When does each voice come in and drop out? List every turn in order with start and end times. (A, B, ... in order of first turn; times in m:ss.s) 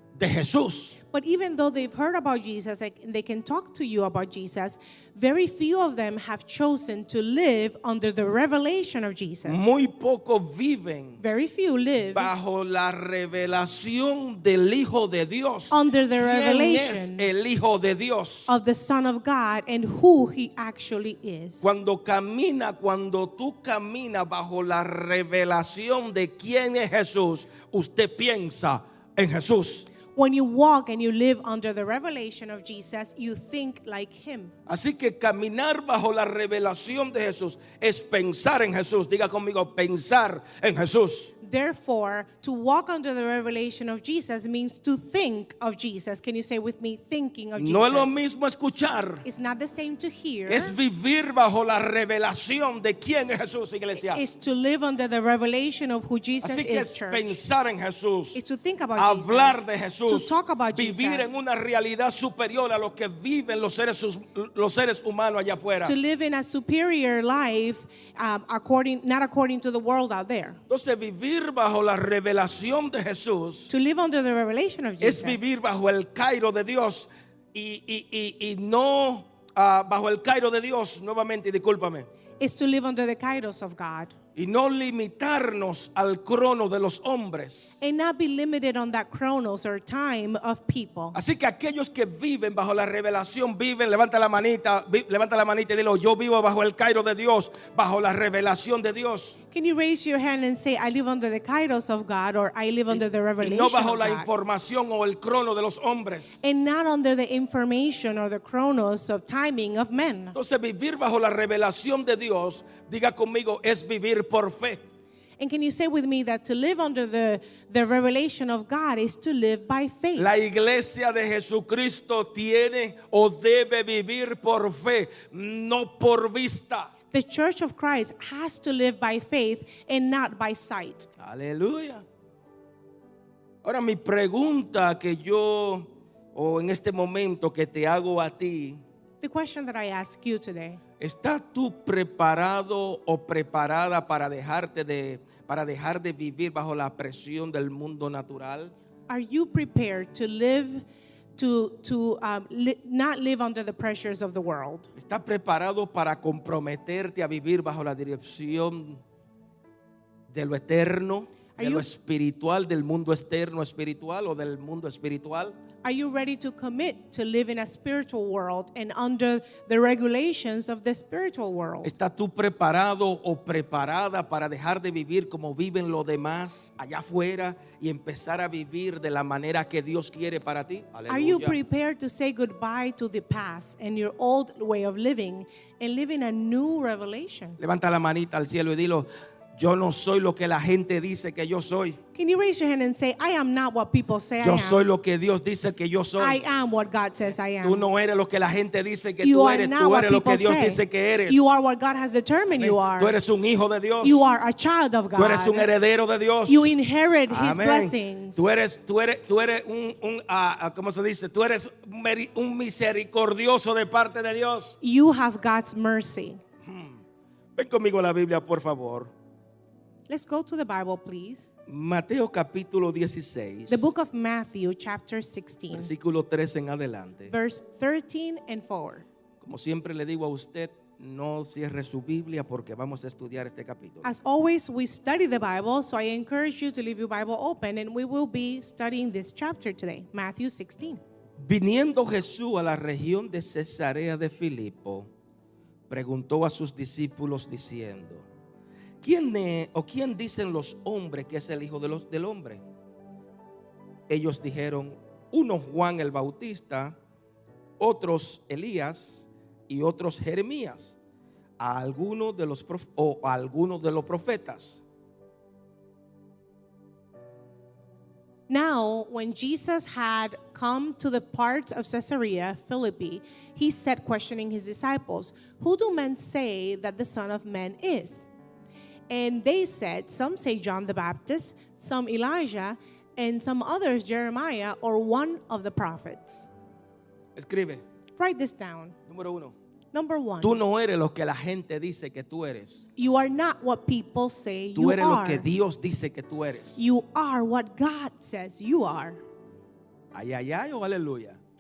0:00.2-0:01.0 A
0:01.1-0:09.7 B
0:09.5-0:11.2 A
0:11.2-0:12.3 B
0:12.1-0:18.5 A
0:15.7-0:17.3 B
0:18.5-0:21.7 B
0:21.6-0:29.9 A
0:30.1-0:34.5 B
0:34.7-0:41.3 A
0:41.4-0:48.2 B
0:47.6-0:49.2 A
0:49.2-0:50.8 B
0:50.5-0:54.2 A
0:54.0-0:57.4 B
0:56.4-0:58.4 A
0:58.4-1:01.3 B
0:59.0-1:05.9 A
1:05.8-1:10.6 B
1:10.7-1:13.7 A
1:13.7-1:15.4 B
1:15.0-1:22.1 A
1:22.4-1:24.1 B
1:24.4-1:27.8 A
1:27.8-1:31.2 B
1:31.1-1:39.4 A
1:39.5-1:44.3 B
1:42.9-1:46.4 A
1:46.4-1:50.4 B
1:50.3-1:54.8 A
1:55.4-2:00.3 B
2:00.2-2:06.9 A
2:07.1-2:11.1 B
2:11.2-2:12.0 A
2:13.6-2:18.8 A
2:19.2-2:20.8 B
2:21.0-2:28.7 A
2:29.1-2:30.8 B
2:31.4-2:34.9 B
2:35.0-2:39.0 A
2:40.3-2:45.6 A
2:41.6-2:41.9 B
2:45.8-2:51.9 B
2:51.8-3:01.6 A
3:01.1-3:07.6 B
3:07.6-3:12.0 A
3:12.2-3:14.9 B
3:14.4-3:16.4 A
3:16.2-3:17.9 B
3:17.6-3:21.5 A
3:19.2-3:23.2 B
3:22.6-3:24.2 A
3:24.0-3:25.7 B
3:25.2-3:26.7 A
3:26.5-3:28.4 B
3:27.3-3:34.8 A
3:34.8-3:36.4 B
3:36.6-3:37.0 A
3:37.6-3:39.1 A
3:40.1-3:41.5 B
3:41.7-3:43.9 A
3:43.7-3:45.9 B
3:45.7-3:47.3 A
3:47.3-3:49.1 B
3:49.4-3:54.1 A
3:54.0-4:01.0 B
4:01.4-4:05.1 A
4:05.9-4:08.3 A
4:09.0-4:12.6 A
4:14.1-4:17.0 A
4:17.8-4:21.0 A
4:21.6-4:24.8 A
4:28.5-4:38.3 B
4:39.1-4:46.5 B
4:47.4-4:47.8 A
4:48.2-4:49.0 B
4:49.1-4:49.6 A
4:49.9-4:50.6 B
4:50.4-4:52.9 A
4:53.0-4:55.5 B
4:54.8-4:56.8 A
4:56.8-4:59.2 B
5:00.1-5:01.4 A